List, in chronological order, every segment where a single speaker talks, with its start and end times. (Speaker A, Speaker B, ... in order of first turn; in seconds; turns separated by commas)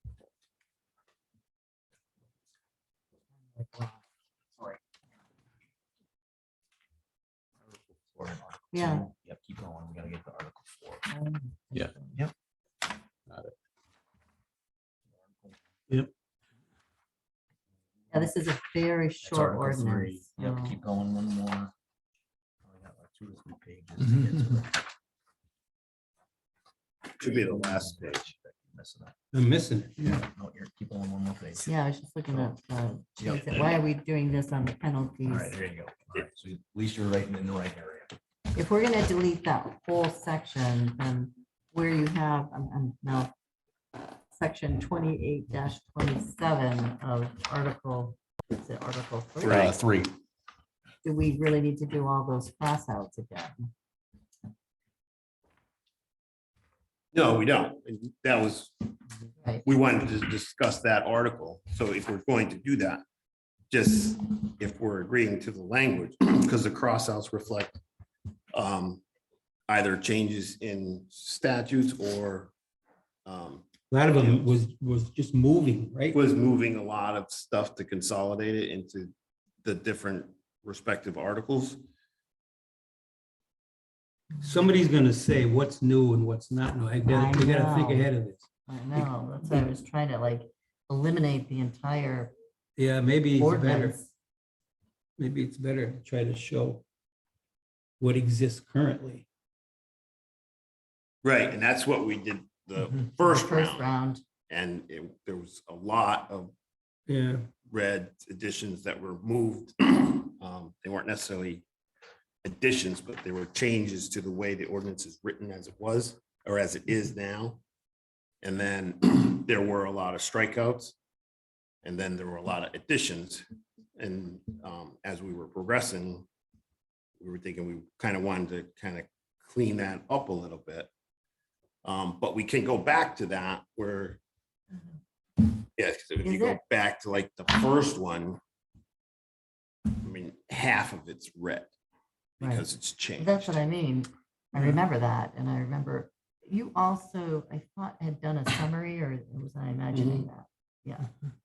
Speaker A: 3.5-4.0, Speaker B: 7.7-11.1, Speaker A: 8.7-9.1, Speaker A: 11.1-12.2, Speaker B: 15.2-15.6, Speaker A: 18.1-20.8, Speaker B: 19.2-21.7, Speaker B: 22.6-24.8, Speaker C: 27.2-28.3, Speaker B: 27.2-29.1, Speaker D: 29.3-30.3, Speaker B: 30.3-31.7, Speaker A: 31.6-35.6, Speaker B: 33.2-33.8, Speaker B: 35.3-38.2, Speaker A: 38.5-43.3, Speaker A: 44.3-49.8, Speaker C: 49.4-50.1, Speaker A: 51.0-53.7, Speaker C: 57.1-59.0, Speaker C: 59.6-63.0, Speaker C: 63.7-67.8, Speaker C: 68.5-69.0, Speaker C: 69.7-72.5, Speaker C: 73.2-74.5, Speaker D: 73.9-76.2, Speaker C: 76.1-79.1, Speaker C: 79.6-81.8, Speaker D: 84.4-88.5, Speaker A: 87.1-88.1, Speaker A: 88.7-92.3, Speaker D: 92.8-94.0, Speaker A: 93.4-94.1, Speaker D: 95.2-96.8, Speaker D: 98.0-99.3, Speaker C: 101.2-103.9, Speaker A: 103.2-104.2, Speaker C: 104.5-106.5, Speaker D: 107.1-107.5, Speaker C: 107.7-111.7, Speaker C: 112.4-117.6, Speaker C: 118.4-121.0, Speaker C: 121.8-123.4, Speaker C: 124.0-126.3, Speaker C: 127.2-130.9, Speaker C: 131.8-134.2, Speaker C: 135.8-138.4, Speaker A: 136.2-136.6, Speaker C: 140.0-141.7, Speaker C: 142.4-143.5, Speaker A: 142.4-142.7, Speaker A: 143.2-151.1, Speaker C: 149.9-150.3